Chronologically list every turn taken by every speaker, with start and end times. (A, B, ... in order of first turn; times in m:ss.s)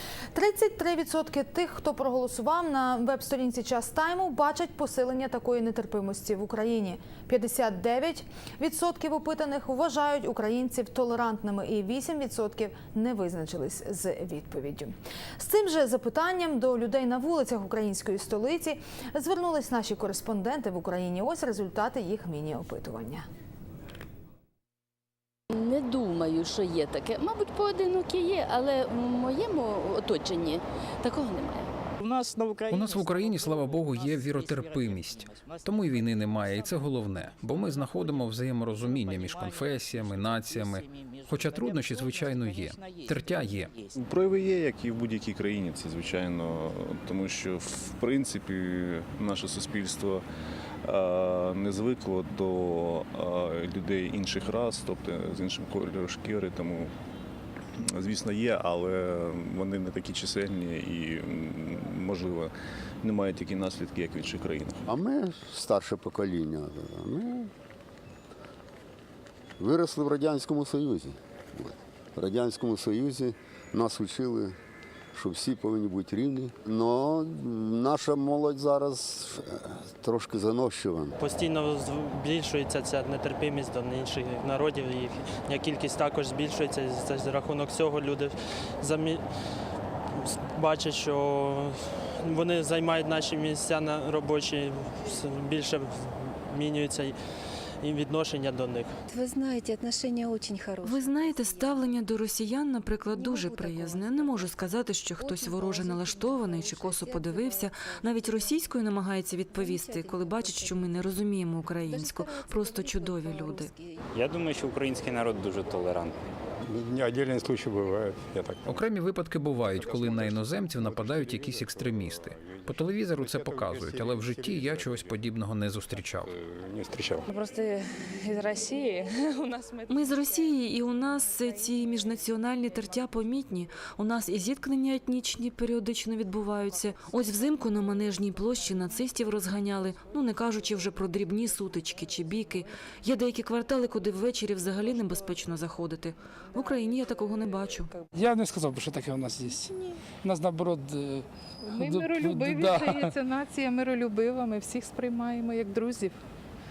0:00.4-0:23.2 A
0:25.5-0:31.7 B
0:32.7-0:43.8 C
0:43.9-0:50.2 D
0:50.8-0:56.9 D
0:57.8-1:02.5 D
1:03.0-1:04.8 D
1:04.9-1:07.5 E
1:09.6-1:14.6 E
1:15.2-1:21.1 E
1:21.2-1:29.3 F
1:30.2-1:37.2 F
1:37.8-1:38.9 F
1:39.1-1:42.0 G
1:40.8-1:53.8 H
1:43.1-1:44.6 G
1:45.2-1:48.7 G
1:49.4-1:51.1 G
1:51.9-1:54.0 G
1:54.1-1:56.2 I
1:56.6-1:58.9 J
1:58.6-2:06.3 C
1:59.6-2:05.2 J
2:06.2-2:07.3 J
2:07.3-2:12.1 K
2:09.9-2:27.9 H
2:26.7-2:26.9 K
2:28.1-2:33.2 L
2:31.6-2:36.2 K